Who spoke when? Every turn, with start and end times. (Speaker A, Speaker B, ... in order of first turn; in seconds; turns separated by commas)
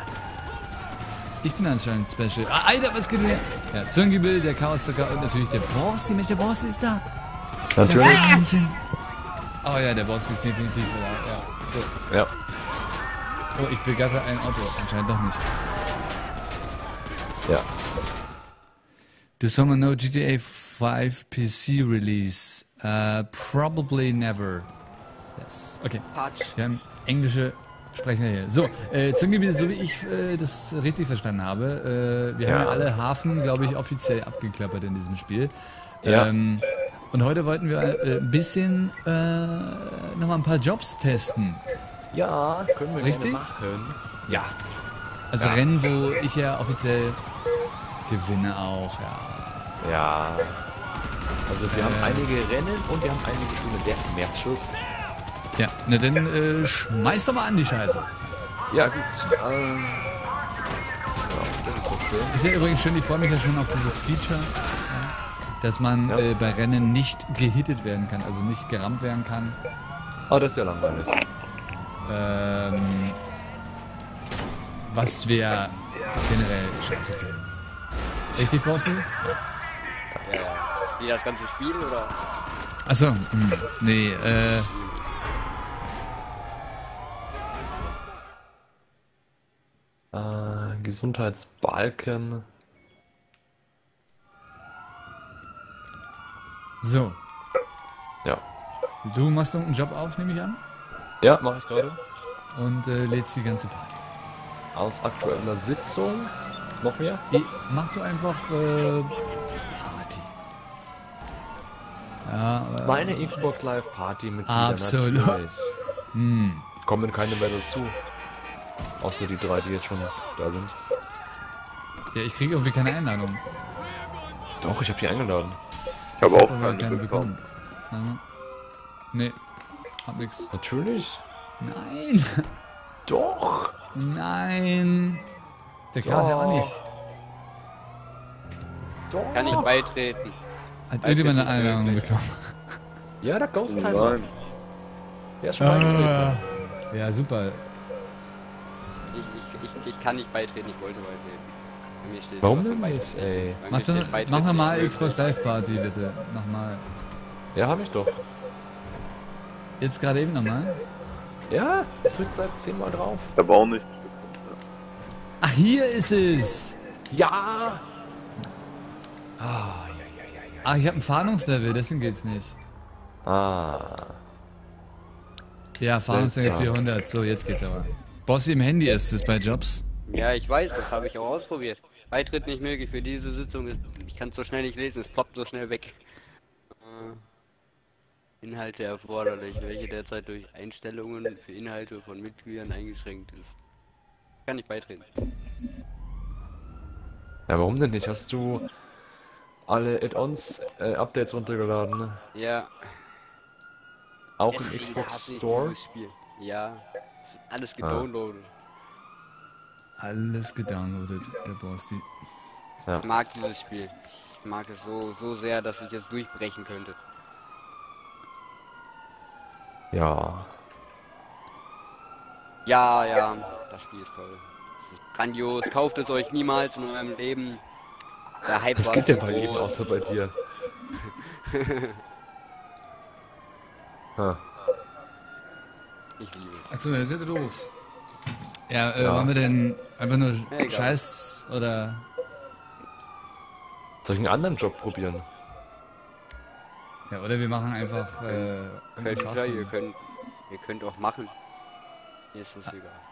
Speaker A: 1.4-7.0, Speaker B: 7.7-8.5, Speaker A: 7.8-8.8, Speaker A: 9.6-11.9, Speaker A: 13.6-15.5, Speaker A: 19.4-24.7, Speaker A: 25.4-41.6, Speaker C: 26.1-26.5, Speaker B: 32.4-32.9, Speaker B: 36.0-36.3, Speaker B: 42.1-44.5, Speaker A: 43.0-43.5, Speaker A: 45.3-47.2, Speaker B: 45.4-45.6, Speaker A: 48.1-49.7, Speaker B: 49.8-50.7, Speaker B: 51.5-54.8, Speaker A: 51.7-52.3, Speaker A: 55.6-58.1, Speaker B: 58.7-60.2, Speaker B: 61.2-62.4, Speaker A: 62.3-69.6, Speaker B: 70.3-71.2, Speaker A: 72.1-73.2, Speaker A: 74.8-77.5, Speaker A: 78.3-79.1, Speaker C: 80.2-82.2, Speaker A: 82.9-84.7, Speaker C: 84.7-85.2, Speaker B: 90.1-92.5, Speaker A: 96.8-97.2, Speaker A: 99.0-100.6, Speaker B: 101.2-102.0, Speaker A: 102.5-104.1, Speaker B: 104.8-107.2, Speaker A: 107.3-110.3, Speaker A: 112.2-113.4, Speaker B: 112.8-115.8, Speaker A: 114.5-115.4, Speaker A: 116.1-116.7, Speaker B: 116.8-118.0, Speaker B: 119.0-120.8, Speaker A: 122.1-123.4, Speaker B: 124.6-125.6, Speaker A: 126.2-128.2, Speaker D: 126.2-127.3, Speaker A: 129.1-129.4, Speaker A: 130.1-130.5, Speaker B: 130.5-131.2, Speaker A: 131.6-132.5, Speaker B: 133.1-133.8, Speaker A: 133.9-135.2, Speaker A: 135.9-136.8, Speaker B: 136.0-136.8, Speaker B: 139.1-139.9, Speaker C: 139.3-140.4, Speaker A: 140.9-142.6, Speaker C: 141.0-142.2, Speaker B: 143.2-144.2, Speaker D: 143.7-144.3, Speaker B: 145.4-146.4, Speaker A: 145.6-147.6, Speaker C: 149.1-155.2, Speaker B: 152.4-153.6, Speaker A: 153.7-156.8, Speaker B: 157.6-158.2, Speaker A: 159.8-160.8, Speaker B: 161.5-163.3, Speaker D: 163.4-164.6, Speaker A: 165.4-166.8, Speaker B: 167.1-167.9, Speaker B: 169.4-170.7, Speaker A: 170.6-172.6, Speaker B: 173.2-174.2, Speaker A: 175.8-179.8, Speaker B: 176.1-176.7, Speaker C: 180.1-186.0, Speaker C: 186.8-187.2, Speaker C: 188.4-193.5, Speaker C: 194.5-195.1, Speaker B: 197.5-198.7, Speaker B: 199.7-202.2, Speaker C: 202.3-203.0, Speaker B: 204.4-205.8, Speaker C: 204.5-208.5, Speaker B: 207.8-208.1, Speaker A: 210.0-212.1, Speaker C: 213.0-217.0, Speaker B: 219.9-220.5, Speaker C: 222.7-227.6, Speaker C: 228.4-229.9, Speaker B: 228.8-230.4, Speaker C: 231.0-232.0, Speaker B: 234.2-234.4, Speaker C: 236.2-236.7, Speaker A: 236.7-237.7, Speaker A: 238.7-242.1, Speaker B: 239.0-239.3, Speaker C: 240.5-241.0, Speaker B: 244.0-245.3, Speaker A: 247.1-249.7, Speaker C: 248.3-251.3, Speaker C: 252.3-253.0